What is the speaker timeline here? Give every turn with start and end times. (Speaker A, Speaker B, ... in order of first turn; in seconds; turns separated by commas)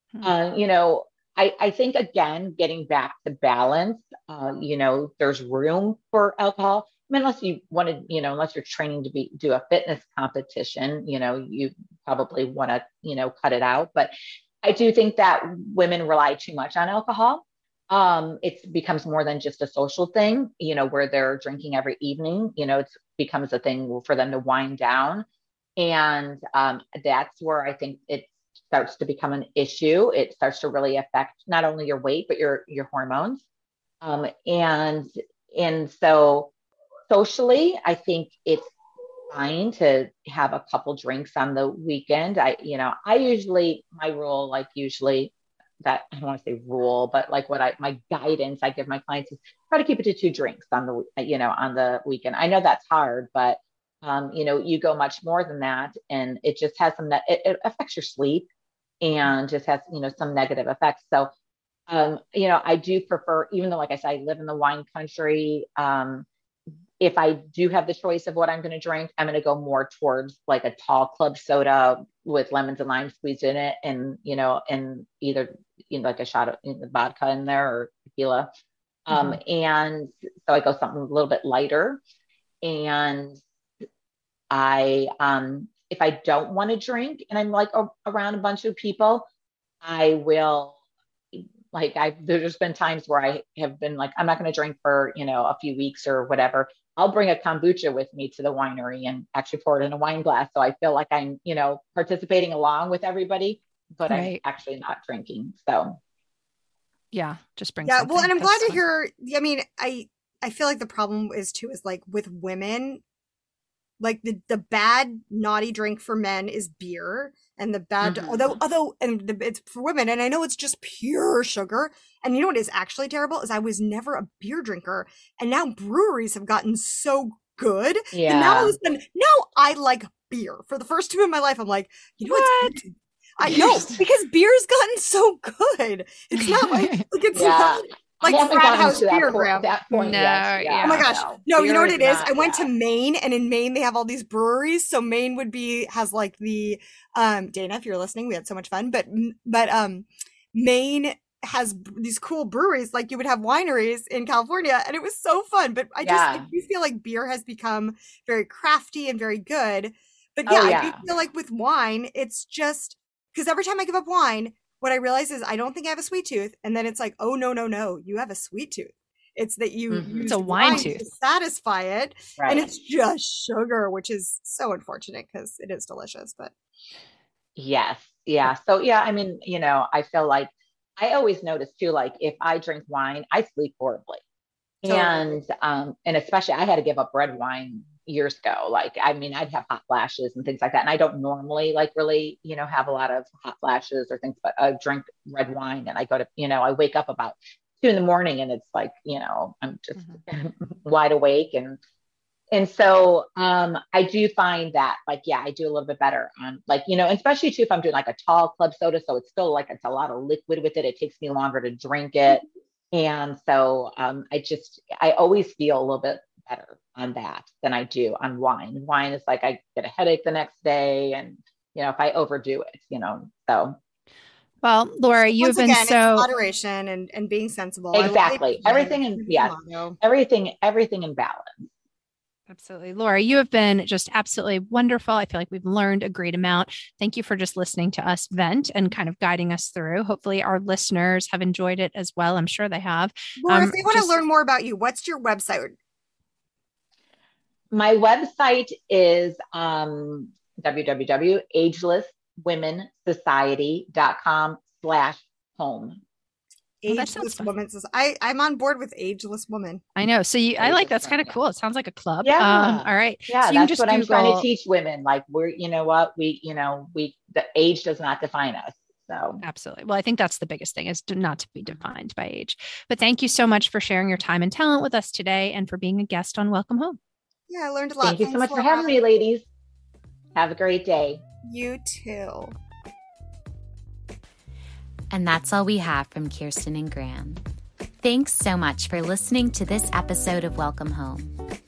Speaker A: 0.2-14.1, Speaker A: 14.6-25.2, Speaker A: 25.8-33.4, Speaker A: 34.0-36.5, Speaker A: 37.1-38.7, Speaker A: 39.3-58.5, Speaker A: 59.0-61.3, Speaker A: 61.9-66.2, Speaker A: 67.0-78.5, Speaker A: 79.1-82.0, Speaker B: 79.1-79.4, Speaker A: 82.6-83.4, Speaker A: 84.5-89.3, Speaker A: 89.8-90.8, Speaker A: 91.3-106.0, Speaker B: 104.1-104.4, Speaker B: 107.1-108.8, Speaker C: 107.8-113.0, Speaker C: 114.0-139.7, Speaker A: 118.0-118.5, Speaker A: 128.1-128.7, Speaker B: 132.2-132.8, Speaker B: 133.4-134.0, Speaker B: 136.3-137.0, Speaker A: 137.3-142.7, Speaker B: 139.9-141.1, Speaker C: 140.8-176.5, Speaker A: 156.0-156.4, Speaker A: 160.5-161.0, Speaker A: 169.9-170.8, Speaker B: 170.2-171.0, Speaker A: 172.4-172.7, Speaker A: 177.6-184.2, Speaker A: 184.8-201.8, Speaker C: 184.8-185.4, Speaker B: 199.9-200.2, Speaker A: 202.5-223.8, Speaker B: 224.6-226.3, Speaker C: 225.2-230.0, Speaker A: 227.9-231.7, Speaker B: 232.5-244.2, Speaker C: 243.4-245.8, Speaker A: 247.7-256.0, Speaker C: 256.8-259.8, Speaker B: 256.9-257.5, Speaker B: 259.9-264.4, Speaker A: 260.6-261.3, Speaker A: 262.2-269.4, Speaker B: 269.4-277.0, Speaker C: 277.5-279.0, Speaker A: 278.0-279.4, Speaker A: 280.3-281.2, Speaker C: 281.4-282.5, Speaker D: 285.1-287.4, Speaker D: 288.0-291.3